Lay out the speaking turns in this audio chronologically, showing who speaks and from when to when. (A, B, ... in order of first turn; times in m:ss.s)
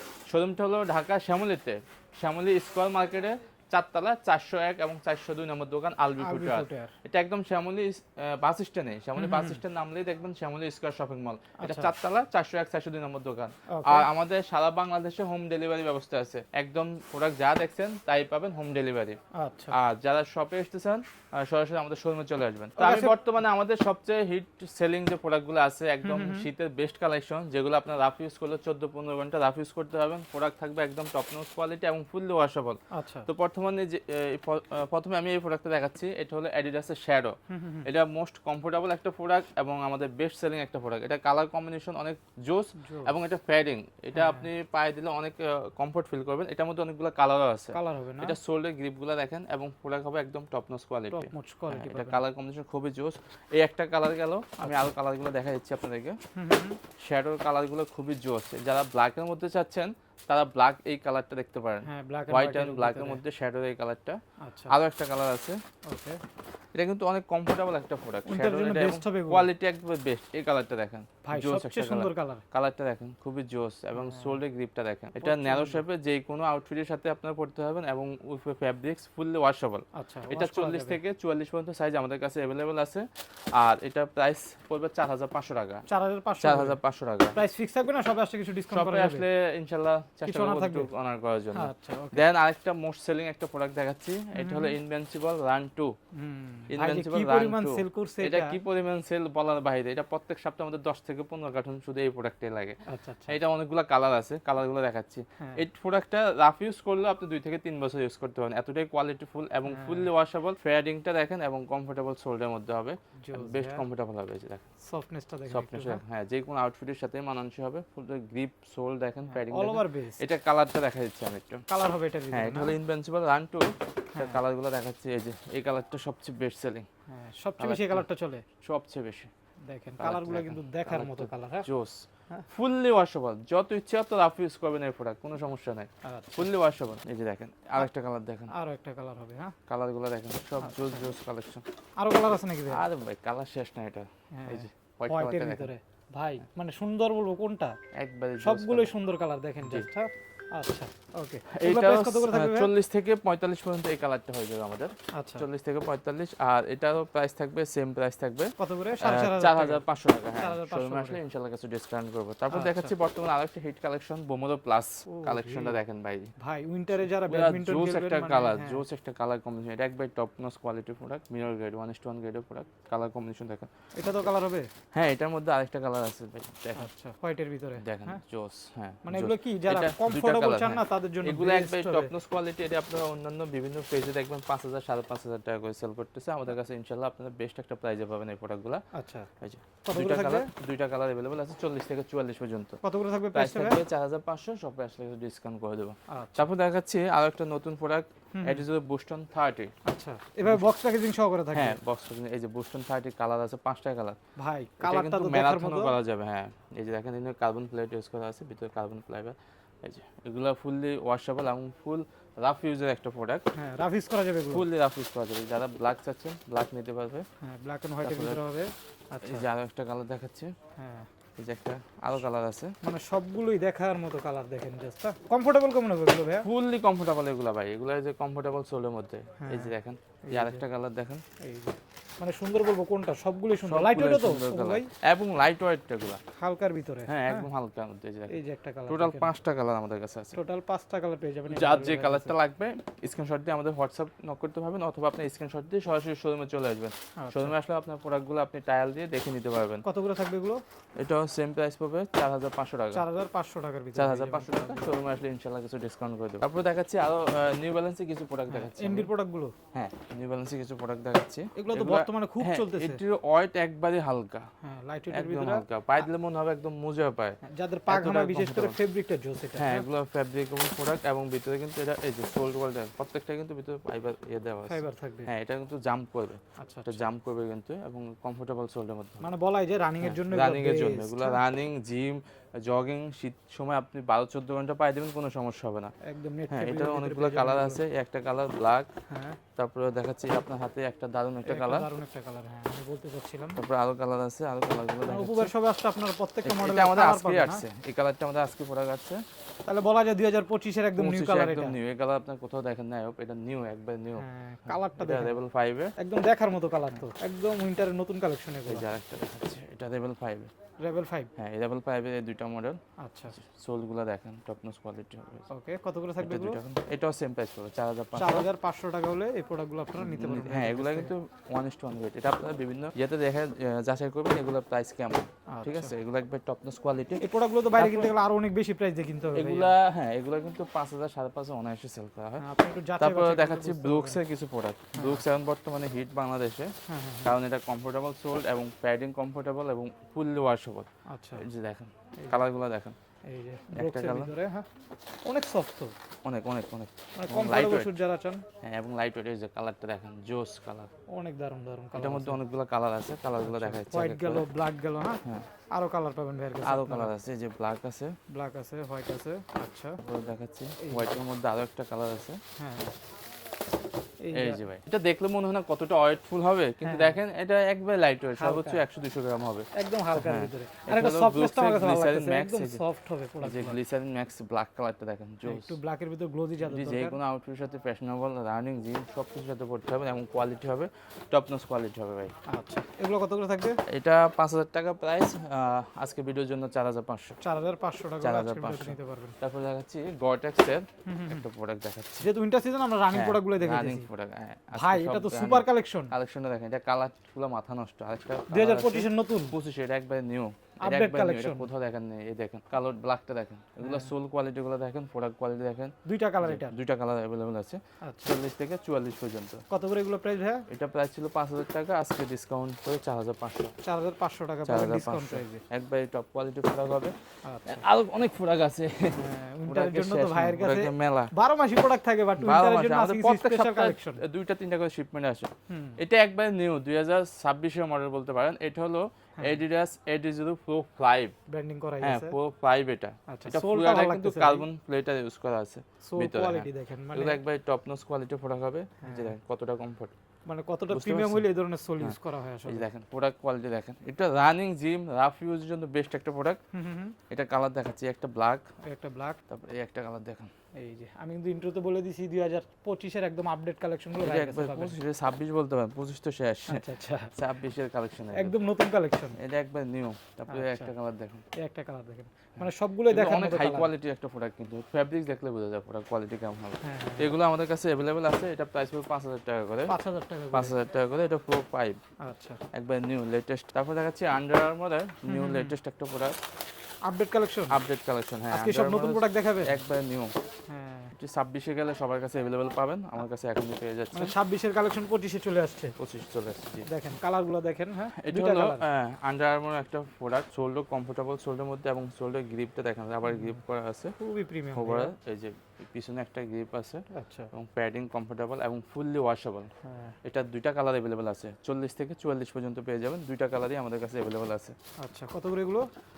0:00.3-0:19.2 A
0:06.2-0:06.9 B
0:09.2-0:09.6 B
0:11.6-0:11.9 B
0:13.7-0:14.1 B
0:19.3-0:19.7 B
0:19.7-0:56.2 A
0:22.8-0:23.2 B
0:26.0-0:26.5 B
0:32.9-0:33.3 B
0:37.5-0:37.9 B
0:42.8-0:43.1 B
0:44.1-0:44.5 B
0:47.7-0:48.4 B
0:51.1-0:52.2 B
0:54.6-0:54.9 B
0:56.4-0:56.8 B
0:57.0-1:05.6 A
1:01.8-1:03.2 B
1:04.4-1:04.7 B
1:05.8-1:06.2 B
1:06.8-1:25.8 A
1:08.3-1:09.5 B
1:11.2-1:12.4 B
1:13.9-1:14.4 B
1:15.2-1:15.8 B
1:19.9-1:21.0 B
1:25.9-1:26.8 B
1:26.4-1:27.4 A
1:27.3-1:29.2 B
1:28.7-1:35.9 A
1:30.2-1:30.9 B
1:31.5-1:32.2 B
1:34.3-1:34.8 B
1:36.2-1:38.6 B
1:36.7-1:54.6 A
1:42.9-1:43.4 B
1:49.7-1:50.1 B
1:53.2-1:53.8 B
1:54.9-1:56.0 B
1:55.5-2:01.6 A
1:59.3-2:00.2 B
2:01.7-2:02.7 B
2:02.3-2:06.9 A
2:04.1-2:04.4 B
2:07.1-2:08.4 B
2:07.6-2:08.0 A
2:08.6-2:09.3 A
2:09.6-2:11.7 B
2:10.0-2:18.5 A
2:16.0-2:16.5 B
2:18.5-2:19.5 B
2:19.7-2:21.6 A
2:20.6-2:21.0 B
2:22.0-2:22.8 B
2:22.7-2:25.7 A
2:24.4-2:27.8 B
2:28.0-2:28.9 A
2:28.4-2:32.7 B
2:31.5-2:46.3 A
2:35.2-2:35.5 B
2:38.6-2:39.8 B
2:40.4-2:41.2 B
2:42.5-2:42.9 B
2:45.1-2:45.8 B
2:46.4-2:48.8 B
2:47.2-2:53.7 A
2:54.0-2:54.7 B
2:54.9-2:56.9 A
2:56.8-2:58.2 B
2:57.8-3:08.8 A
2:59.0-3:02.1 B
3:08.9-3:09.3 B
3:09.4-3:12.8 A
3:09.8-3:10.5 B
3:12.8-3:13.8 B
3:13.3-3:19.7 A
3:16.1-3:16.5 B
3:18.3-3:18.6 B
3:19.8-3:21.8 B
3:21.5-3:24.2 A
3:24.4-3:26.0 B
3:24.8-3:33.4 A
3:33.5-3:34.6 B
3:34.5-3:37.2 A
3:37.4-3:39.5 B
3:38.0-3:38.4 A
3:39.2-3:40.5 A
3:40.8-3:41.1 B
3:41.4-3:42.7 A
3:42.8-3:46.5 B
3:46.4-3:51.2 A
3:49.4-3:49.8 B
3:50.3-3:50.6 B
3:51.4-3:54.9 B
3:53.6-3:56.2 A
3:56.4-3:57.5 B
3:57.1-4:00.4 A
3:58.3-3:59.3 B
4:00.3-4:02.3 B
4:01.5-4:09.8 A
4:07.2-4:07.5 B
4:09.8-4:10.6 B
4:11.0-4:13.0 A
4:12.9-4:15.0 B
4:13.9-4:19.1 A
4:18.5-4:19.5 B
4:19.7-4:24.4 A
4:21.6-4:23.0 B
4:24.6-4:25.6 B
4:25.1-4:28.8 A
4:27.4-4:29.8 B
4:29.6-4:39.2 A
4:34.7-4:35.3 B
4:36.6-4:37.1 B
4:39.2-4:41.4 B
4:40.0-4:45.9 A
4:46.0-4:47.8 B
4:46.5-4:48.9 A
4:49.1-4:49.4 B
4:49.6-4:51.9 A
4:51.4-4:53.6 B
4:53.6-4:55.5 A
4:55.0-4:57.6 B
4:56.4-4:59.2 A
4:59.6-5:01.8 B
5:01.0-5:05.9 A
5:04.2-5:05.4 B
5:06.0-5:08.9 B
5:08.7-5:10.5 A
5:10.8-5:11.3 B
5:11.4-5:12.8 A
5:13.0-5:13.3 B
5:13.3-5:15.4 A
5:15.5-5:16.6 B
5:16.2-5:18.5 A
5:18.1-5:21.1 B
5:19.9-5:27.2 A
5:25.5-5:25.9 B
5:27.2-5:29.7 B
5:27.8-5:28.1 A
5:29.3-5:32.4 A
5:32.4-5:34.2 B
5:33.0-5:43.0 A
5:34.9-5:35.2 B
5:36.9-5:37.3 B
5:41.1-5:41.4 B
5:43.2-5:44.7 B
5:43.7-5:44.3 A
5:45.2-5:45.9 B
5:46.2-5:47.9 A
5:47.2-5:48.4 B
5:48.6-5:50.9 A
5:51.1-5:52.4 B
5:51.9-5:54.4 A
5:53.4-5:57.1 B
5:55.2-5:55.5 A
5:56.6-5:58.2 A
5:58.3-6:00.0 B
6:00.0-6:02.4 A
6:00.8-6:01.2 B
6:02.6-6:02.9 B
6:04.2-6:04.6 B
6:04.3-6:12.8 A
6:06.8-6:07.2 B
6:08.4-6:08.8 B
6:09.7-6:13.8 B
6:13.4-6:15.8 A
6:15.4-6:17.2 B
6:16.6-6:22.3 A
6:22.5-6:23.8 B
6:23.9-6:27.4 A
6:27.4-6:29.4 B
6:28.2-6:32.3 A
6:31.1-6:31.4 B
6:32.2-6:34.1 B
6:33.1-6:49.6 A
6:34.7-6:36.1 B
6:38.5-6:39.5 B
6:40.8-6:41.7 B
6:43.8-6:44.1 B
6:46.0-6:46.8 B
6:48.0-6:48.4 B
6:49.7-6:50.6 B
6:50.7-6:53.7 A
6:53.8-6:55.6 B
6:54.6-6:57.1 A
6:57.4-6:57.8 B
6:57.6-7:01.3 A
6:59.2-7:04.2 B
7:02.4-7:11.3 A
7:05.7-7:06.0 B
7:11.5-7:12.4 B
7:12.0-7:20.1 A
7:13.3-7:14.7 B
7:16.0-7:17.4 B
7:19.0-7:19.3 B
7:20.5-7:22.9 B
7:20.9-7:21.4 A
7:22.0-7:26.6 A
7:26.7-7:27.2 B
7:27.3-7:28.6 A
7:28.8-7:29.4 B
7:29.5-7:30.5 A
7:30.8-7:35.0 B
7:34.2-7:38.6 A
7:36.7-7:37.3 B
7:38.3-7:39.4 B
7:39.3-7:41.4 A
7:40.5-7:40.9 B
7:41.6-7:43.9 B
7:42.6-7:49.9 A
7:46.8-7:47.3 B
7:49.9-7:50.7 B
7:50.5-7:52.0 A
7:52.2-7:52.6 B
7:52.7-7:56.3 A
7:55.2-7:55.8 B
7:57.0-7:57.8 B
7:57.7-8:00.3 A
7:58.5-7:59.8 B
8:00.7-8:01.1 B
8:01.1-8:04.3 A
8:04.1-8:06.0 B
8:06.0-8:06.9 A
8:06.8-8:08.8 B
8:08.2-8:14.2 A
8:13.3-8:13.6 B
8:14.2-8:15.1 B
8:14.7-8:19.7 A
8:17.1-8:17.5 B
8:19.8-8:20.2 B
8:20.2-8:24.8 A
8:25.0-8:25.9 B